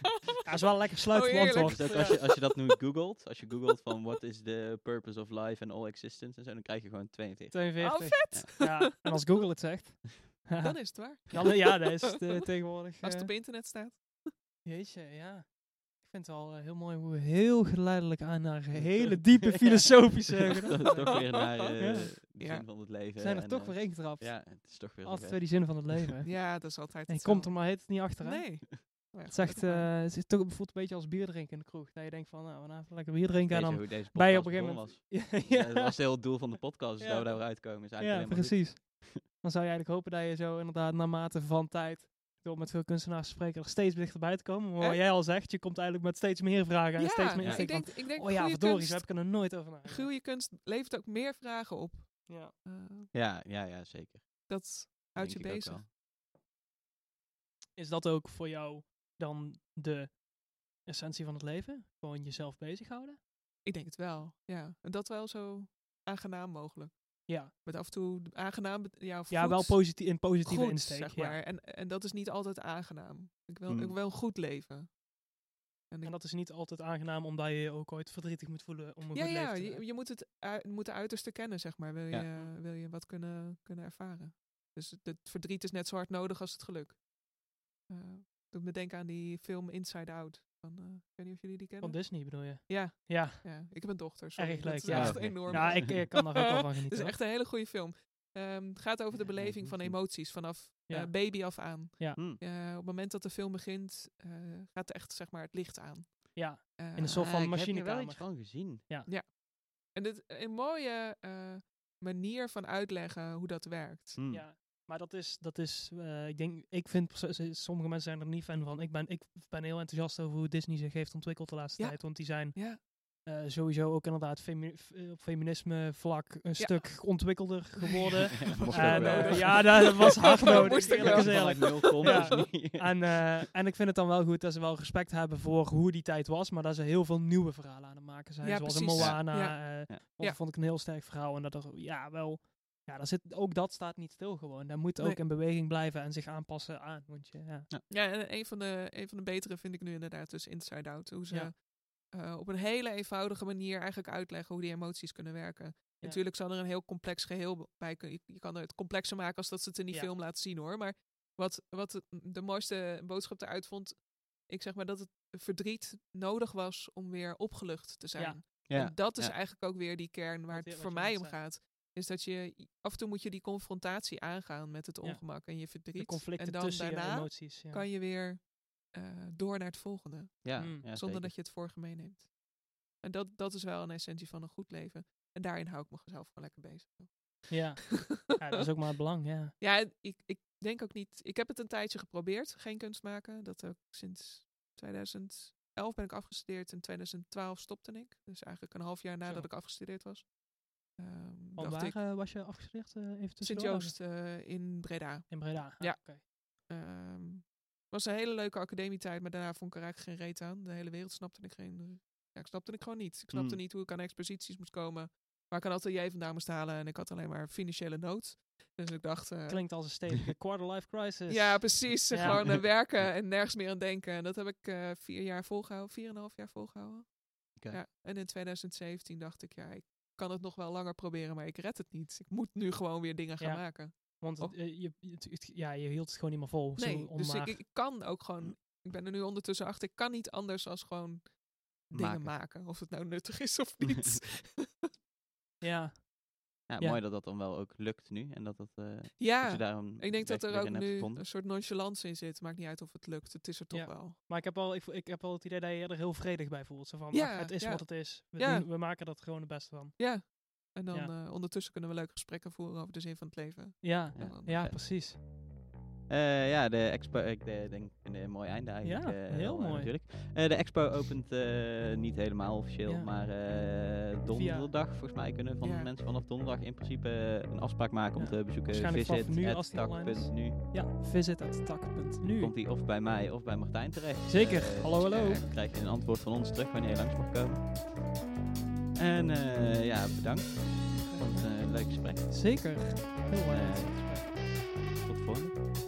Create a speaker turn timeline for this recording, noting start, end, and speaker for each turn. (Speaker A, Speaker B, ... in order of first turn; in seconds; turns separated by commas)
Speaker A: 0.4-2.2, Speaker B: 1.1-2.7, Speaker C: 1.5-8.5, Speaker A: 7.5-13.3, Speaker B: 7.8-8.9, Speaker B: 10.6-11.8, Speaker B: 13.0-14.3, Speaker A: 14.6-22.1, Speaker C: 18.7-26.1, Speaker B: 20.8-22.7, Speaker A: 23.2-36.2, Speaker B: 26.2-29.9, Speaker C: 33.4-39.2, Speaker A: 37.0-50.1, Speaker B: 44.8-45.0, Speaker B: 47.0-53.1, Speaker C: 47.4-47.7, Speaker A: 52.3-52.5, Speaker C: 53.1-55.9, Speaker B: 54.5-55.9, Speaker A: 57.8-60.2, Speaker A: 60.8-63.2, Speaker B: 63.6-74.9, Speaker A: 69.3-71.4, Speaker C: 73.7-74.0, Speaker B: 75.9-76.2, Speaker A: 76.0-79.8, Speaker B: 79.1-87.0, Speaker C: 82.1-82.4, Speaker B: 87.9-107.5, Speaker A: 91.8-97.2, Speaker C: 94.9-95.9, Speaker C: 99.2-100.0, Speaker A: 100.9-102.2, Speaker C: 102.1-102.4, Speaker A: 106.3-109.1, Speaker C: 107.1-108.8, Speaker B: 109.0-109.3, Speaker B: 109.9-114.2, Speaker C: 114.2-114.5, Speaker A: 114.3-147.7, Speaker B: 121.8-122.8, Speaker B: 126.5-132.4, Speaker C: 128.4-133.3, Speaker B: 138.4-140.4, Speaker C: 138.9-140.0, Speaker B: 145.0-145.2, Speaker B: 147.9-182.3, Speaker C: 168.7-169.3, Speaker A: 170.5-171.4, Speaker A: 175.0-177.8, Speaker C: 180.4-181.3, Speaker A: 180.6-180.8, Speaker B: 183.0-188.3, Speaker A: 187.5-189.5, Speaker B: 189.6-200.3, Speaker B: 200.9-202.0, Speaker A: 201.6-204.0, Speaker B: 203.4-219.8, Speaker A: 205.3-206.2, Speaker C: 213.3-213.6, Speaker A: 219.5-222.5, Speaker B: 221.3-234.6, Speaker C: 222.2-222.6, Speaker C: 227.6-227.8, Speaker A: 233.4-237.6, Speaker B: 236.8-241.3, Speaker B: 241.9-244.8, Speaker C: 241.9-242.3, Speaker C: 243.8-244.2, Speaker A: 245.6-246.1, Speaker C: 246.7-251.3, Speaker A: 246.7-247.0, Speaker B: 249.2-254.2, Speaker A: 253.7-260.3, Speaker B: 257.1-258.7, Speaker B: 260.0-264.7, Speaker A: 263.8-265.2, Speaker C: 264.1-264.8, Speaker C: 266.1-280.6, Speaker A: 268.8-269.9, Speaker A: 272.9-273.1, Speaker A: 274.3-274.7, Speaker B: 275.6-275.9, Speaker A: 278.1-282.5, Speaker C: 282.2-287.7, Speaker A: 284.3-285.4, Speaker B: 285.0-285.5, Speaker C: 288.9-292.8, Speaker B: 291.1-291.4, Speaker A: 292.2-294.3, Speaker C: 293.4-295.6